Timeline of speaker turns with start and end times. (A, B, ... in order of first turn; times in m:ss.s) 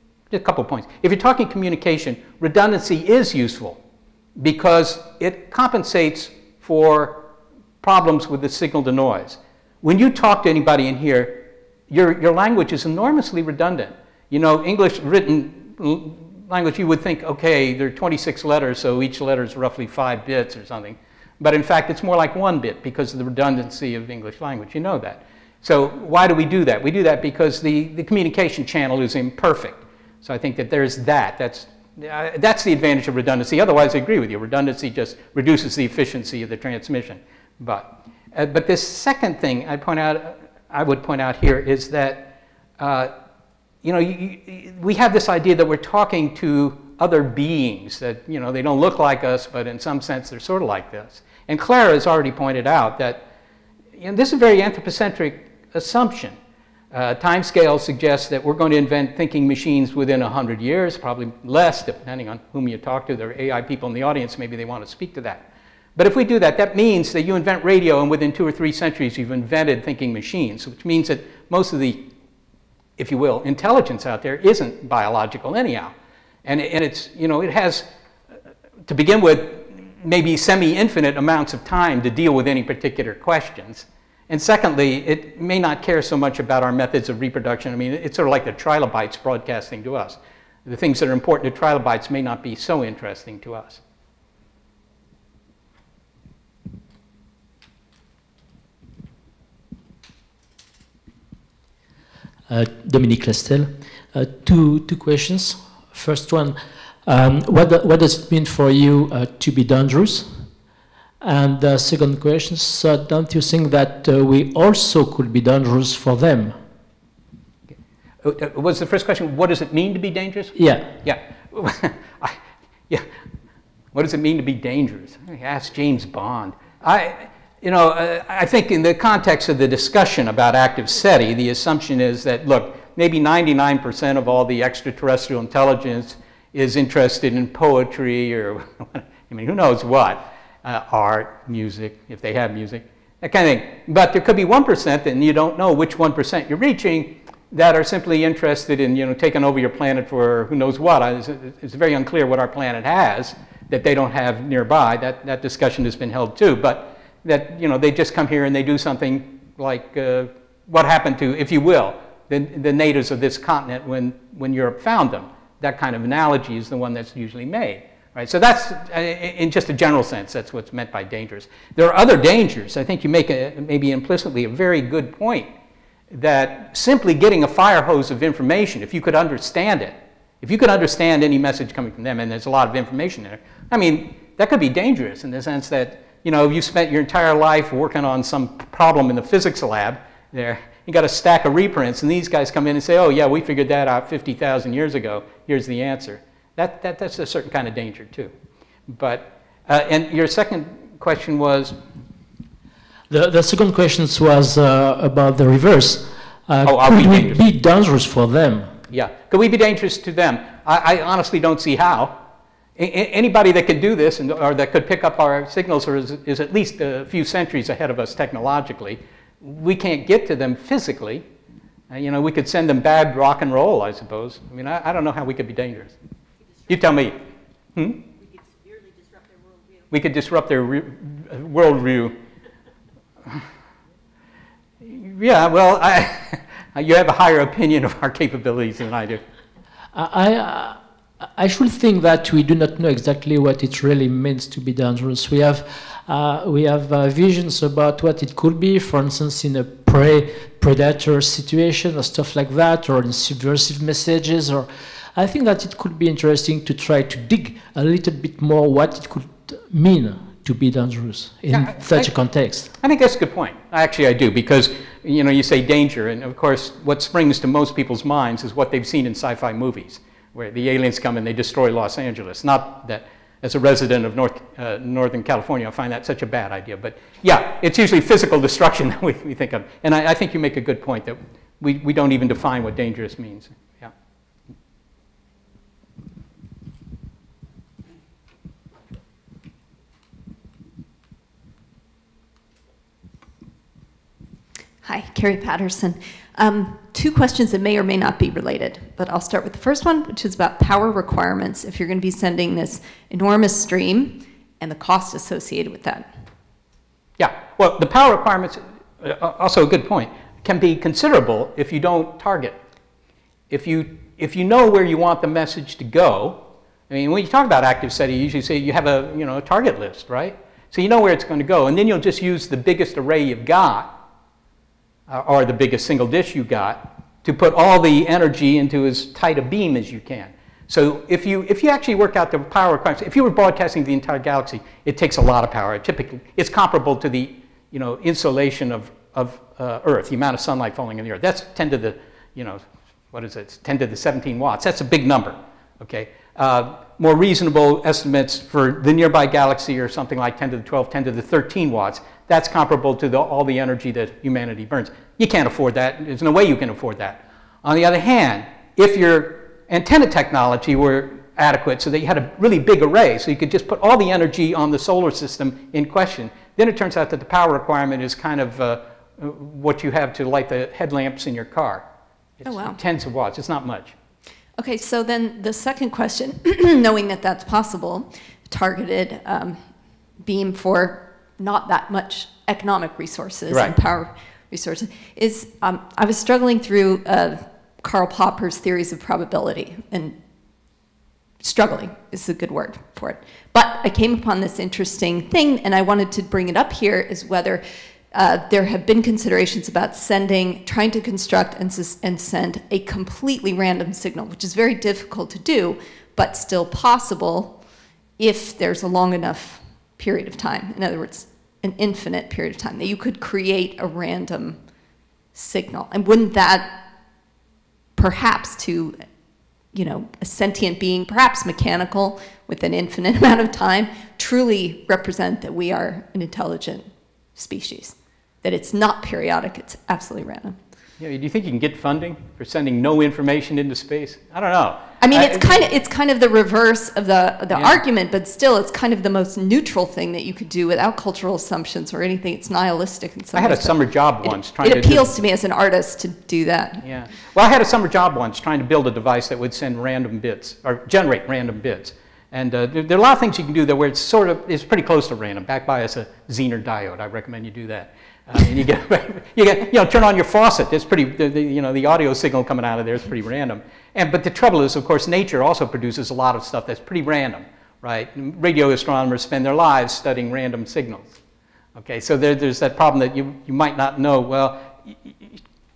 0:00.3-0:03.8 A
0:04.4-0:07.2 A
0:07.8-0:43.1 A
0:43.8-0:53.2 A
0:54.0-0:56.4 A
0:56.9-1:05.4 A
1:06.0-1:12.0 A
1:13.0-1:15.9 A
1:16.4-1:17.8 A
1:18.9-1:33.8 A
1:42.5-1:50.5 B
1:51.2-1:56.6 B
1:58.2-2:02.4 A
2:00.6-2:00.9 B
2:03.9-2:55.5 A
2:56.1-3:18.3 A
3:18.9-3:21.8 A
3:23.1-3:28.7 B
3:26.6-3:27.4 A
3:28.9-3:32.2 A
3:32.8-3:41.2 A
3:41.9-3:46.0 A
3:46.7-3:47.2 A
3:47.8-3:48.1 A
3:49.9-3:52.2 A
3:54.8-3:59.2 A
3:59.9-4:00.8 B
4:01.4-4:22.7 B
4:21.5-4:22.1 A
4:22.8-4:43.9 A
4:54.8-5:06.2 C
5:07.2-5:12.6 A
5:13.5-5:23.9 A
5:25.1-6:11.8 A
6:12.4-6:14.0 A
6:12.5-6:12.8 C
6:14.6-6:19.6 C
6:20.2-6:30.2 C
6:23.5-6:23.7 A
6:31.4-6:47.6 C
6:48.2-6:54.6 C
6:55.4-6:56.8 C
6:58.0-6:59.0 C
6:59.7-7:10.6 C
7:11.0-7:15.7 A
7:15.0-7:26.8 C
7:17.5-7:17.8 A
7:23.3-7:25.1 A
7:26.8-7:51.2 A
7:51.8-7:55.4 A